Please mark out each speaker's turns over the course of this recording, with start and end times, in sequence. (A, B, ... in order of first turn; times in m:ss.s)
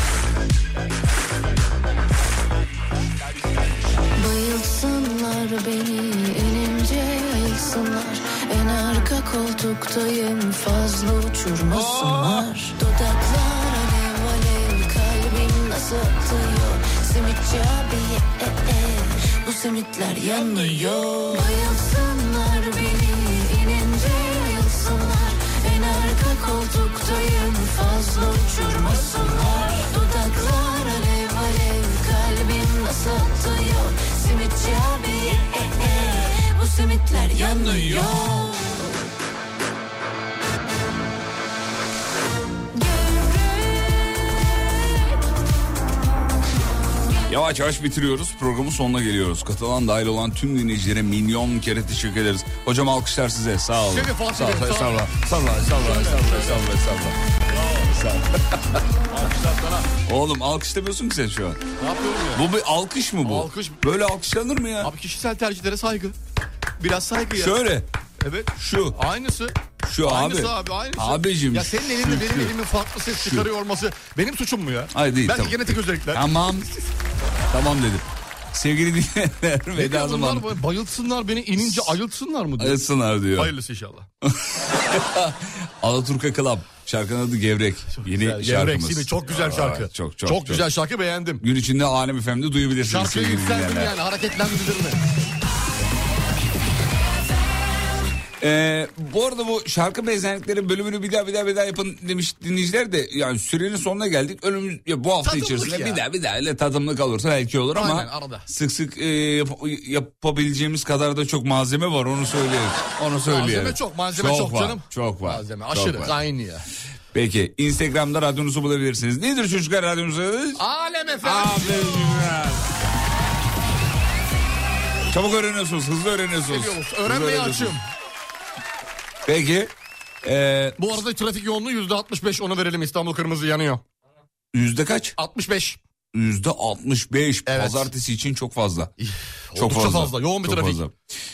0:04.2-0:39.0 A
0:37.4-0:38.0 B
0:43.0-0:43.8 A
0:47.3-0:58.8 B
0:53.8-0:55.1 C
0:55.7-0:56.6 C
0:57.6-0:57.8 C
0:59.1-0:59.9 C
1:00.1-1:01.6 B
1:01.8-1:02.4 C
1:02.3-1:04.9 B
1:03.2-1:03.8 C
1:04.8-1:06.2 C
1:06.8-1:07.5 C
1:07.4-1:07.9 B
1:08.2-1:16.2 C
1:08.6-1:09.0 B
1:09.8-1:12.6 B
1:13.1-1:13.5 B
1:14.9-1:16.7 B
1:17.5-1:20.6 B
1:19.8-1:22.8 C
1:21.6-1:22.0 B
1:22.6-1:23.5 B
1:23.3-1:24.1 C
1:24.3-1:30.7 B
1:28.0-1:31.4 C
1:31.4-1:33.9 B
1:32.8-1:35.0 C
1:38.4-1:56.2 B
1:45.2-1:46.0 C
1:47.7-1:48.5 C
1:53.3-1:56.6 C
1:57.1-2:00.6 B
2:00.6-2:01.8 C
2:01.2-2:02.7 B
2:05.1-2:07.8 B
2:06.5-2:07.8 C
2:09.3-2:09.7 B
2:10.2-2:11.0 B
2:10.8-2:13.8 C
2:14.5-2:15.2 B
2:15.2-2:15.8 C
2:16.1-2:18.9 B
2:17.5-2:17.9 C
2:19.0-2:20.8 C
2:19.6-2:20.9 B